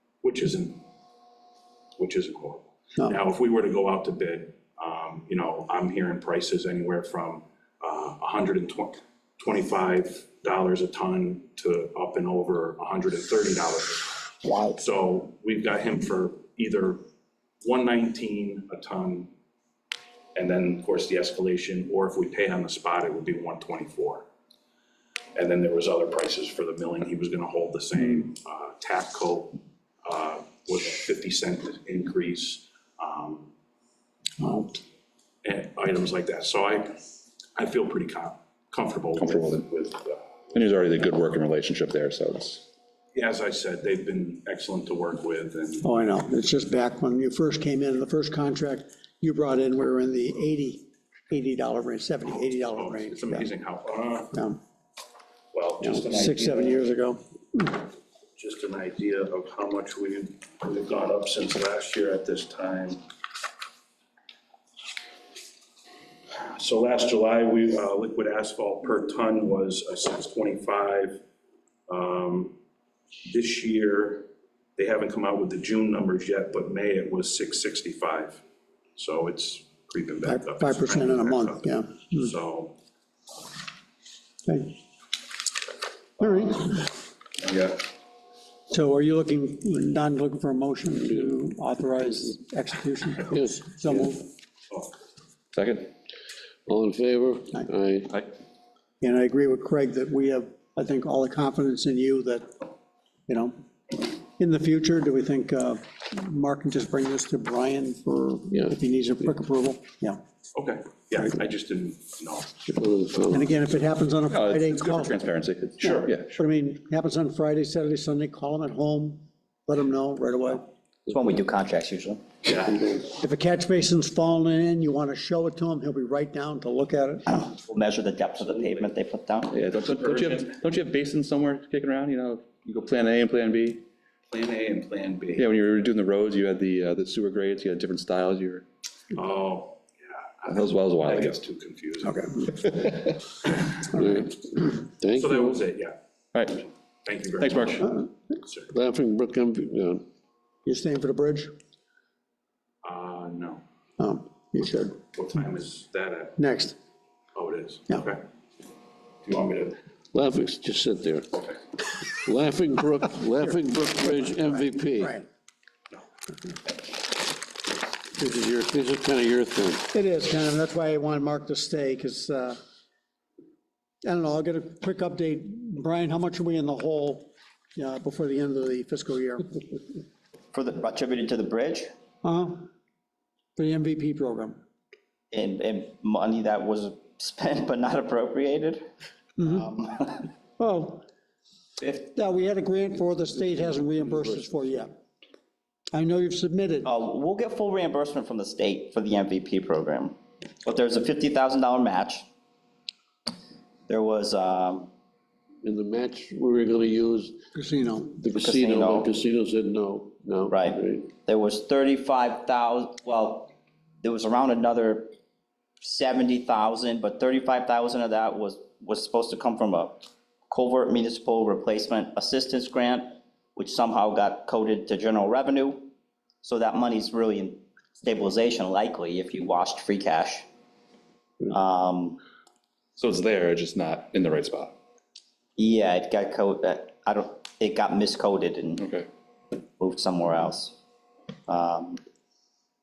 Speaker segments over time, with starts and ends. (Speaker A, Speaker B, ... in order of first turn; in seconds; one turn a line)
Speaker A: 0.2-0.8
Speaker A: 2.0-17.0
Speaker A: 17.6-19.3
Speaker A: 20.4-24.3
Speaker A: 25.4-33.5
Speaker B: 34.4-34.8
Speaker A: 35.4-37.0
Speaker A: 37.6-40.4
Speaker C: 39.2-39.6
Speaker C: 40.5-42.6
Speaker A: 43.1-45.9
Speaker B: 45.8-53.5
Speaker A: 52.3-54.4
Speaker B: 54.3-54.6
Speaker A: 55.5-56.9
Speaker B: 55.8-57.8
Speaker A: 58.4-63.0
Speaker A: 66.4-71.2
Speaker A: 71.9-72.5
Speaker A: 73.2-78.4
Speaker A: 79.0-82.8
Speaker B: 80.2-82.3
Speaker B: 84.5-84.8
Speaker B: 86.2-86.9
Speaker A: 87.4-87.8
Speaker B: 88.7-94.2
Speaker D: 93.3-94.2
Speaker C: 95.5-95.9
Speaker D: 96.7-98.1
Speaker B: 99.0-102.6
Speaker B: 103.3-110.2
Speaker D: 108.5-108.8
Speaker A: 110.5-113.5
Speaker D: 112.7-113.5
Speaker B: 113.3-115.2
Speaker C: 114.3-116.3
Speaker B: 115.8-120.7
Speaker A: 115.8-116.1
Speaker E: 121.1-122.2
Speaker A: 122.5-122.9
Speaker B: 123.1-127.4
Speaker E: 127.3-129.5
Speaker C: 129.5-133.8
Speaker A: 129.8-130.6
Speaker A: 134.3-135.5
Speaker C: 135.4-138.7
Speaker A: 139.1-143.0
Speaker C: 140.5-141.4
Speaker D: 143.9-145.6
Speaker A: 145.1-146.0
Speaker C: 146.3-146.6
Speaker A: 146.5-148.7
Speaker C: 147.4-147.9
Speaker D: 148.7-150.0
Speaker B: 150.7-151.6
Speaker A: 152.8-153.6
Speaker B: 154.0-155.0
Speaker A: 155.1-156.4
Speaker B: 156.4-156.8
Speaker A: 157.3-158.2
Speaker A: 159.2-159.8
Speaker D: 160.1-161.3
Speaker D: 162.1-165.2
Speaker B: 165.0-165.2
Speaker D: 168.2-169.9
Speaker B: 169.9-172.6
Speaker B: 174.0-179.5
Speaker E: 180.5-181.9
Speaker B: 182.2-182.7
Speaker B: 183.6-184.6
Speaker E: 185.3-188.8
Speaker B: 189.4-189.7
Speaker E: 189.4-190.3
Speaker B: 190.6-191.0
Speaker E: 191.8-192.1
Speaker B: 192.1-194.9
Speaker D: 193.4-194.8
Speaker B: 195.9-196.9
Speaker E: 196.8-202.2
Speaker E: 203.9-204.9
Speaker D: 205.6-207.5
Speaker B: 207.5-208.1
Speaker D: 208.1-211.1
Speaker E: 208.3-209.1
Speaker E: 210.5-213.5
Speaker E: 214.0-215.1
Speaker E: 215.8-225.9
Speaker E: 226.4-230.5
Speaker E: 231.5-232.2
Speaker C: 233.0-234.7
Speaker E: 235.6-238.8
Speaker C: 238.8-239.1
Speaker E: 239.8-240.8
Speaker E: 241.5-242.0